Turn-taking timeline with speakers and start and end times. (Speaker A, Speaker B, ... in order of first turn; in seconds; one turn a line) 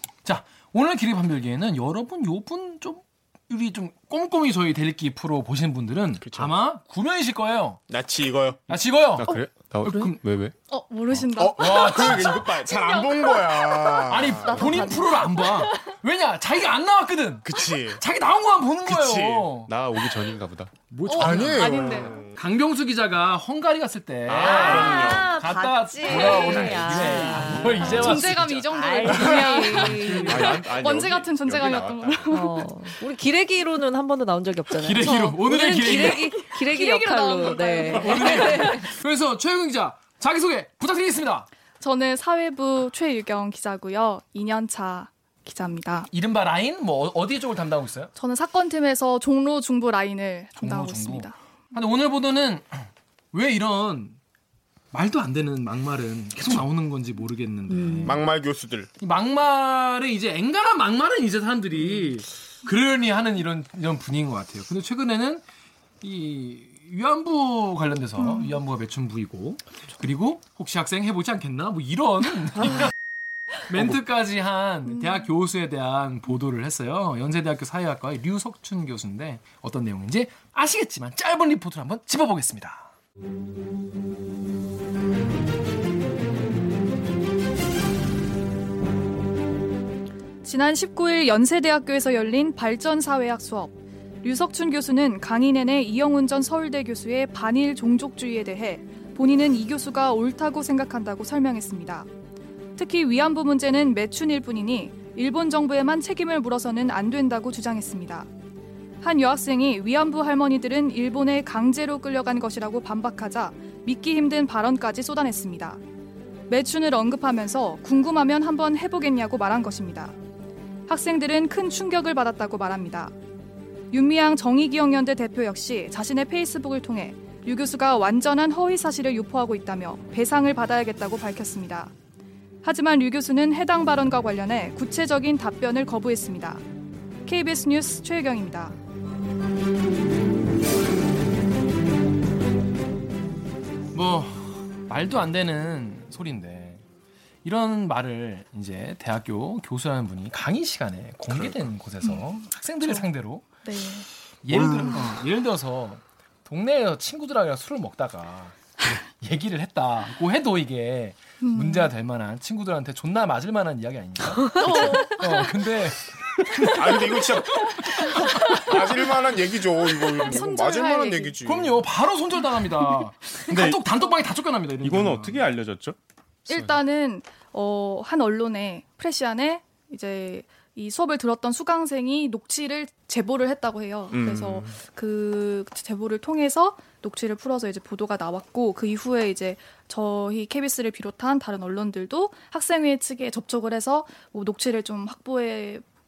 Speaker A: 0.2-7.8
Speaker B: 6.2-6.5
Speaker B: 7.9-8.6
Speaker A: 8.7-10.2
Speaker C: 9.2-10.5
Speaker D: 10.7-14.1
Speaker B: 11.4-14.9
Speaker A: 11.6-12.5
Speaker A: 14.1-19.7
Speaker E: 14.5-15.6
Speaker B: 17.5-18.0
Speaker B: 18.9-19.6
Speaker C: 19.6-20.8
Speaker A: 20.9-28.6
Speaker D: 21.1-22.2
Speaker B: 21.1-22.4
Speaker C: 24.3-25.3
Speaker E: 24.4-30.7
Speaker B: 24.7-25.2
Speaker C: 26.1-28.6
Speaker D: 27.8-32.7
Speaker C: 29.6-32.4
Speaker E: 32.3-38.9
Speaker A: 34.8-36.5
Speaker D: 36.1-38.8
Speaker A: 37.9-41.5
Speaker D: 41.8-46.1
Speaker A: 46.1-48.1
Speaker D: 48.2-51.4
Speaker A: 50.6-54.2
Speaker A: 54.9-58.2
Speaker E: 57.7-58.2
Speaker B: 58.0-58.9
Speaker A: 59.0-65.4
Speaker A: 66.0-72.9
Speaker D: 68.2-68.6
Speaker A: 73.7-82.9
Speaker D: 74.9-75.3
Speaker D: 90.4-102.1
Speaker D: 102.8-108.3
Speaker D: 109.0-115.8
Speaker D: 116.5-120.2
Speaker D: 120.9-123.1
Speaker D: 123.9-131.9
Speaker D: 132.6-136.6
Speaker D: 137.2-138.8
Speaker A: 143.9-146.8
Speaker A: 147.4-153.4
Speaker D: 153.6-154.1
Speaker A: 154.4-168.4
Speaker B: 154.5-155.1
Speaker D: 161.4-161.9
Speaker E: 164.4-164.8
Speaker D: 164.6-165.6
Speaker B: 166.7-171.8
Speaker D: 169.9-171.4
Speaker A: 171.4-175.4
Speaker C: 173.4-173.8
Speaker C: 174.8-175.9
Speaker C: 176.5-176.8
Speaker D: 176.5-195.8
Speaker B: 184.1-184.7